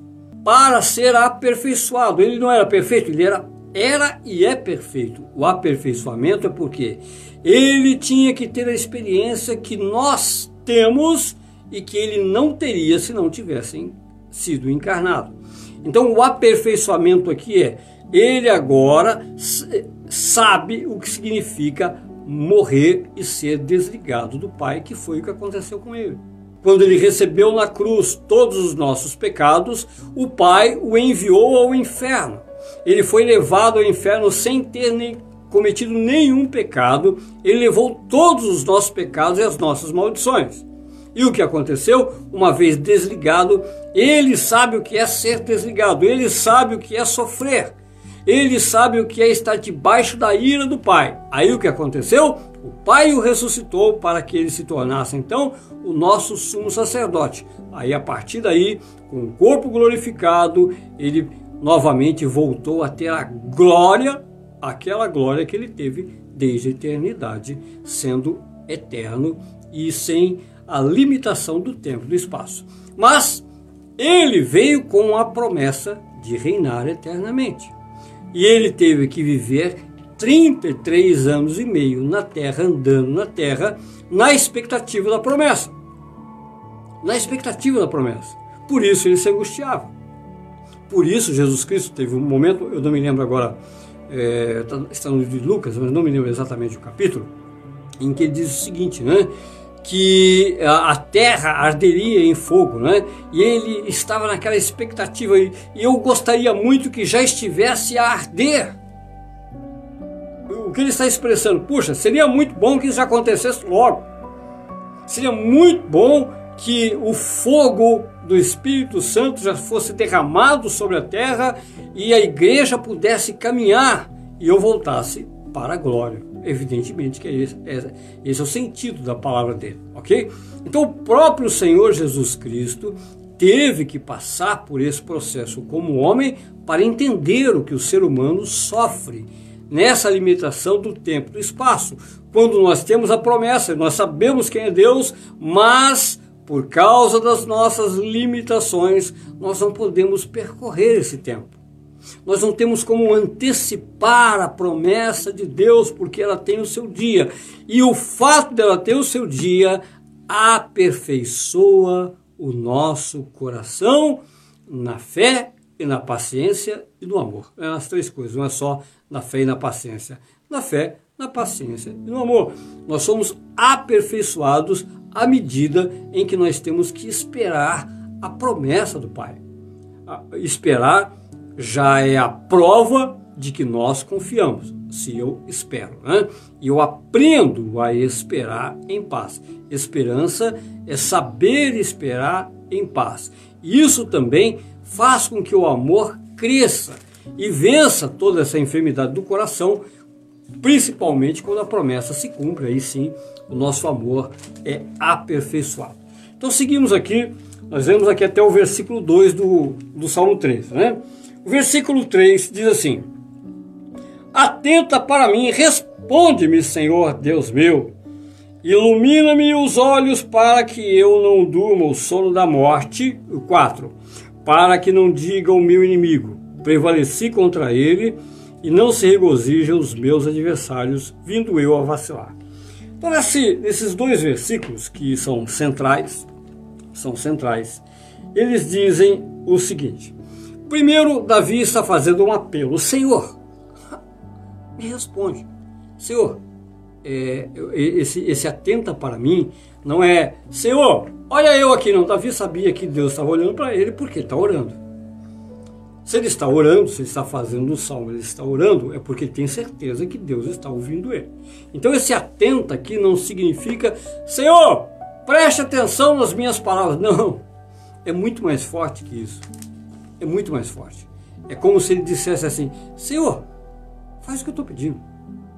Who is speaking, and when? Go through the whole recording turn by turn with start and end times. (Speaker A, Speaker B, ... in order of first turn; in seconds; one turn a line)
Speaker A: 0.4-47.8
Speaker A: 48.3-73.5
Speaker A: 74.0-77.7
Speaker A: 78.3-85.7
Speaker A: 87.0-89.9
Speaker A: 90.9-93.6
Speaker A: 94.1-97.3
Speaker A: 98.0-99.3
Speaker A: 99.8-108.8
Speaker A: 110.5-114.1
Speaker A: 115.1-151.6
Speaker A: 152.2-179.4
Speaker A: 180.1-199.8
Speaker A: 200.6-213.1
Speaker A: 214.3-217.9
Speaker A: 218.6-232.3
Speaker A: 233.0-236.3
Speaker A: 236.9-240.2
Speaker A: 240.7-243.4
Speaker A: 244.8-245.5
Speaker A: 246.0-246.4
Speaker A: 247.0-254.8
Speaker A: 256.0-267.4
Speaker A: 268.1-269.4
Speaker A: 270.2-273.5
Speaker A: 274.2-275.0